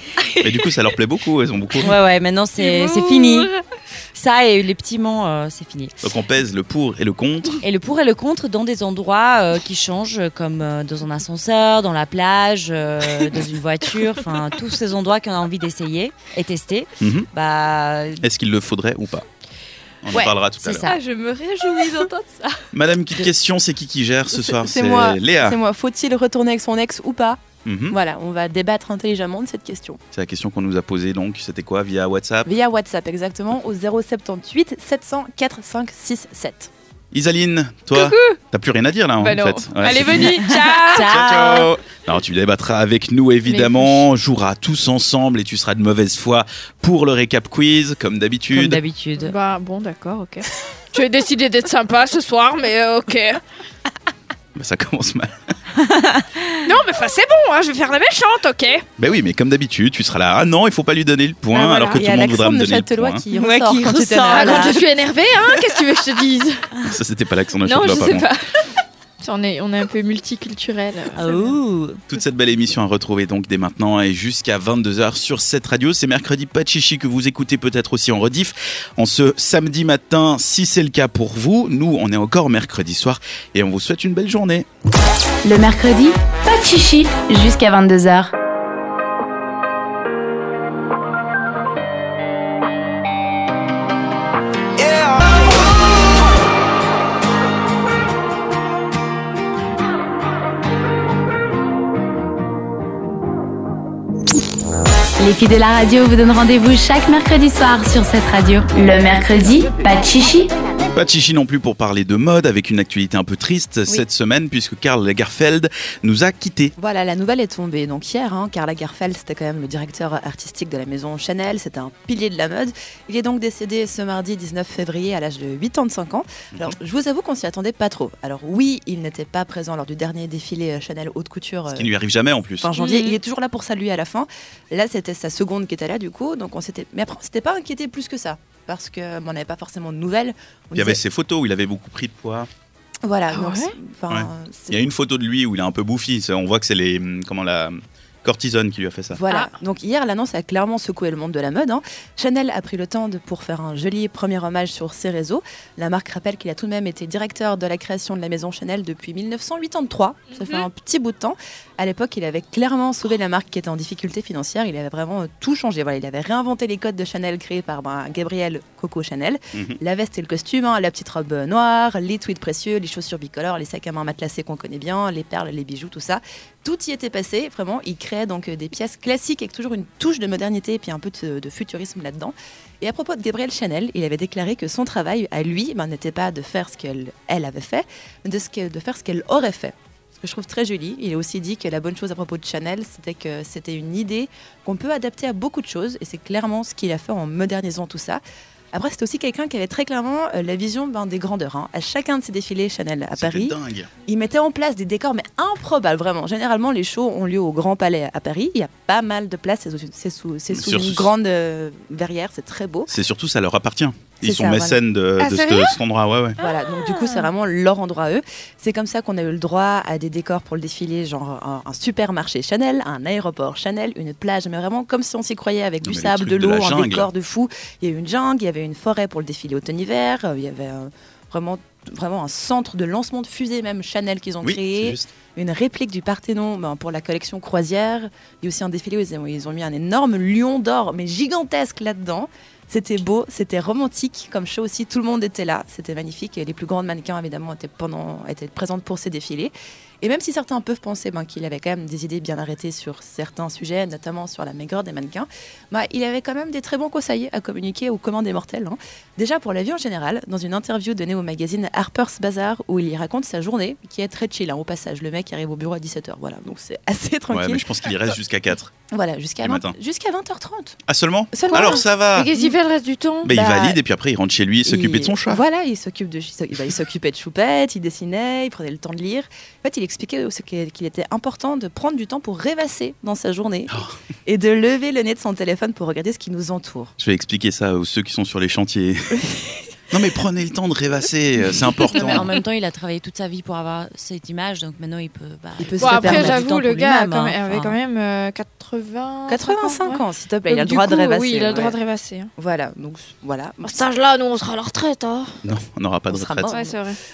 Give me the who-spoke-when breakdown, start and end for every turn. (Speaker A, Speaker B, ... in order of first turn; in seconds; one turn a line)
Speaker A: 0.4-1.9
Speaker B: 1.8-3.5
Speaker C: 2.6-3.6
Speaker B: 4.1-6.0
Speaker A: 6.0-7.6
Speaker B: 7.6-18.2
Speaker A: 17.0-17.3
Speaker A: 18.2-19.2
Speaker A: 20.0-20.9
Speaker B: 20.6-21.0
Speaker C: 20.8-22.6
Speaker A: 22.7-25.6
Speaker D: 24.3-30.0
Speaker A: 27.6-28.0
Speaker A: 30.1-32.5
Speaker D: 32.5-36.7
Speaker A: 37.1-40.5
Speaker C: 37.9-38.4
Speaker C: 39.2-41.1
Speaker B: 40.5-41.7
Speaker A: 41.0-48.8
Speaker C: 43.5-44.0
Speaker B: 48.5-49.3
Speaker C: 49.2-53.4
Speaker A: 54.5-55.3
Speaker B: 55.8-56.6
Speaker C: 56.6-58.9
Speaker A: 59.0-63.2
Speaker C: 61.5-62.0
Speaker D: 61.8-64.8
Speaker B: 63.4-64.8
Speaker C: 64.3-66.7
Speaker A: 66.9-68.3
Speaker C: 67.6-71.5
Speaker B: 71.2-72.0
Speaker A: 72.1-84.7
Speaker E: 85.4-88.3
Speaker E: 105.2-110.5
Speaker A: 110.9-116.7
Speaker D: 116.8-131.9
Speaker A: 131.7-132.7
Speaker D: 132.6-141.0
Speaker A: 140.8-142.5
Speaker D: 143.0-144.8
Speaker C: 143.3-143.8
Speaker A: 144.1-149.2
Speaker D: 149.1-212.9
Speaker C: 160.3-160.7
Speaker A: 203.2-203.9
Speaker A: 210.5-211.1
Speaker A: 212.9-216.4
Speaker D: 214.2-214.8
Speaker C: 215.2-215.8
Speaker D: 216.4-267.7
Speaker C: 216.9-217.2
Speaker A: 225.8-227.1
Speaker A: 234.4-235.1
Speaker A: 267.3-268.7
Speaker D: 268.9-270.8
Speaker A: 269.4-269.7
Speaker A: 270.9-272.3
Speaker D: 271.3-272.5
Speaker C: 271.5-273.3
Speaker A: 273.2-275.4
Speaker D: 273.2-273.8
Speaker D: 274.6-283.7
Speaker A: 283.7-283.9
Speaker D: 284.3-286.9
Speaker A: 287.0-289.2
Speaker A: 289.9-292.3
Speaker B: 291.9-297.8
Speaker D: 295.6-296.4
Speaker C: 295.8-302.3
Speaker D: 299.3-301.8
Speaker D: 302.4-303.9
Speaker C: 303.6-305.4
Speaker A: 305.4-306.5
Speaker D: 306.1-306.8
Speaker C: 306.5-307.0